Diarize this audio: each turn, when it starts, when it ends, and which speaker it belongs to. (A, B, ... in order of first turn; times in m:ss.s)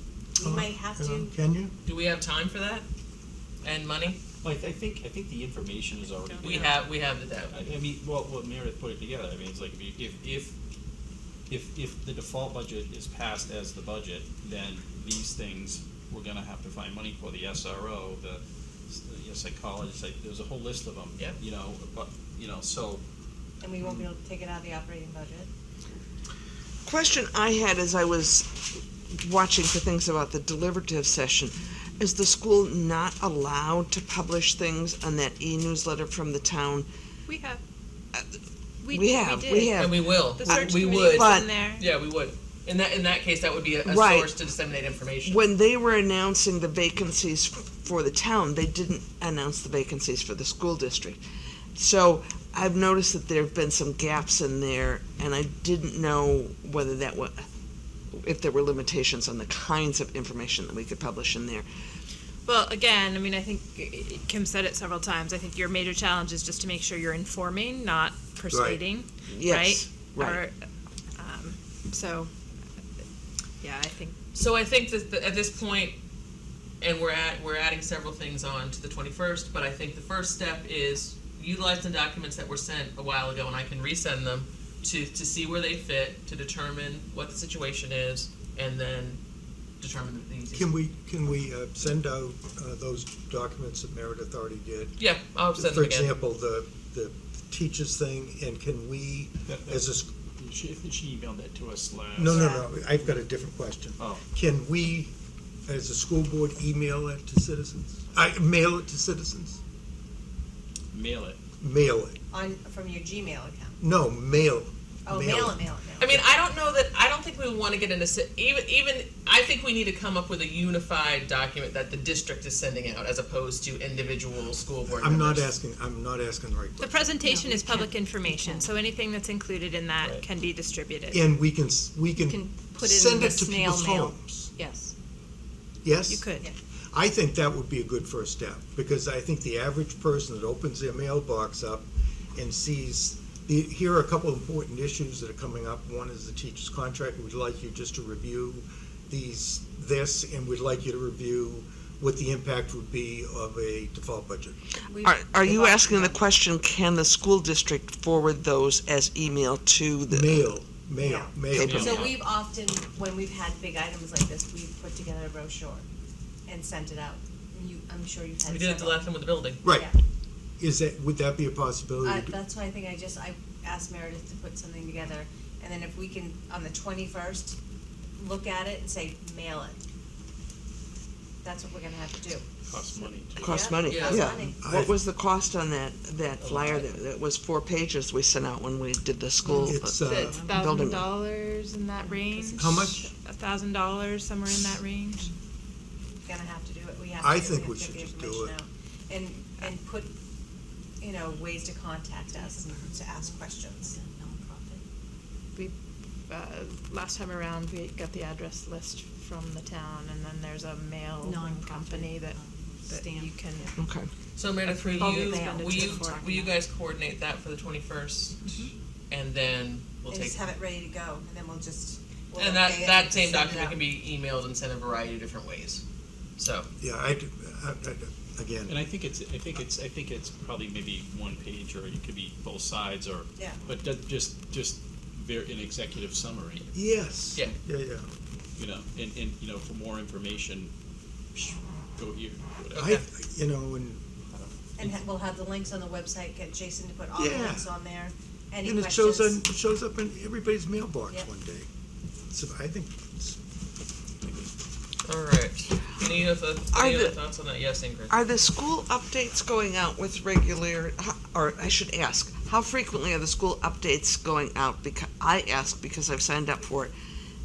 0:00.3-0:01.3 A
0:00.4-0:01.7 B
0:01.8-0:02.8 C
0:03.6-0:04.2 C
0:04.4-0:06.8 D
0:06.3-0:06.7 E
0:06.4-0:07.5 C
0:07.5-0:10.5 D
0:11.5-0:23.0 D
0:23.6-0:25.5 A
0:26.8-0:36.9 F
0:37.3-0:37.6 E
0:38.1-0:41.5 F
0:38.8-0:41.8 E
0:39.8-0:45.5 C
0:43.8-0:44.3 F
0:45.2-0:51.2 F
0:51.8-0:57.4 F
0:58.1-1:01.6 F
1:02.4-1:10.5 E
1:08.5-1:08.8 B
1:09.3-1:10.4 F
1:11.2-1:12.3 E
1:13.6-1:14.2 E
1:14.3-1:16.0 C
1:16.8-1:29.2 C
1:29.8-1:30.8 C
1:30.5-1:35.0 B
1:35.0-1:36.2 C
1:35.5-1:40.1 B
1:39.5-1:39.8 D
1:40.4-1:43.3 D
1:42.2-1:45.1 B
1:42.3-1:42.7 A
1:44.0-1:44.2 D
1:45.7-1:49.6 B
1:50.9-1:51.4 D
1:51.6-1:52.2 B
1:52.3-1:53.8 A
1:53.8-1:55.6 B
1:55.0-1:56.3 A
1:56.0-2:05.5 C
2:04.9-2:07.0 B
2:06.8-2:11.2 E
2:07.2-2:08.7 G
2:11.1-2:14.5 B
2:12.2-2:14.9 G
2:15.8-2:16.3 B
2:16.1-2:16.5 E
2:16.9-2:34.6 B
2:34.9-2:36.2 A
2:35.0-2:40.5 F
2:40.1-2:41.9 B
2:41.0-2:45.8 A
2:41.5-2:42.2 D
2:41.5-2:41.9 F
2:46.5-2:49.0 A
2:48.4-2:49.6 C
2:49.6-2:49.9 B
2:49.6-2:50.0 A
2:50.6-2:52.3 B
2:52.0-2:57.6 A
2:58.2-2:59.8 A
3:01.4-3:02.5 A
3:02.6-3:04.2 D
3:03.4-3:04.6 A
3:03.4-3:11.1 F
3:03.8-3:04.3 C
3:04.6-3:05.0 B
3:06.4-3:06.9 C
3:09.5-3:10.4 B
3:09.9-3:15.3 E
3:10.3-3:10.7 G
3:12.2-3:12.6 G
3:12.5-3:13.1 B
3:16.2-3:20.1 A
3:17.2-3:18.5 B
3:21.0-3:24.0 A
3:22.8-3:23.3 G
3:23.8-3:24.8 G
3:26.3-3:32.4 E
3:31.2-3:33.7 G
3:31.4-3:32.1 A
3:32.9-3:33.7 E
3:33.0-3:33.8 A
3:33.8-3:34.1 F
3:34.4-3:38.4 C
3:34.7-3:36.5 E
3:34.9-3:36.3 G
3:35.0-3:35.8 A
3:39.1-3:40.5 C
3:40.1-3:43.8 A
3:42.4-3:45.8 C
3:46.4-3:46.7 C
3:46.8-3:48.8 B
3:48.7-3:56.7 D
3:56.7-3:58.1 B
3:58.6-4:00.7 D
4:01.3-4:02.9 D
4:02.7-4:03.0 C
4:02.8-4:04.0 B
4:04.3-4:05.0 D
4:04.8-4:09.4 A
4:07.2-4:07.7 B
4:08.6-4:11.7 B
4:12.3-4:13.4 B
4:15.0-4:18.1 C
4:16.7-4:17.2 F
4:18.1-4:26.9 F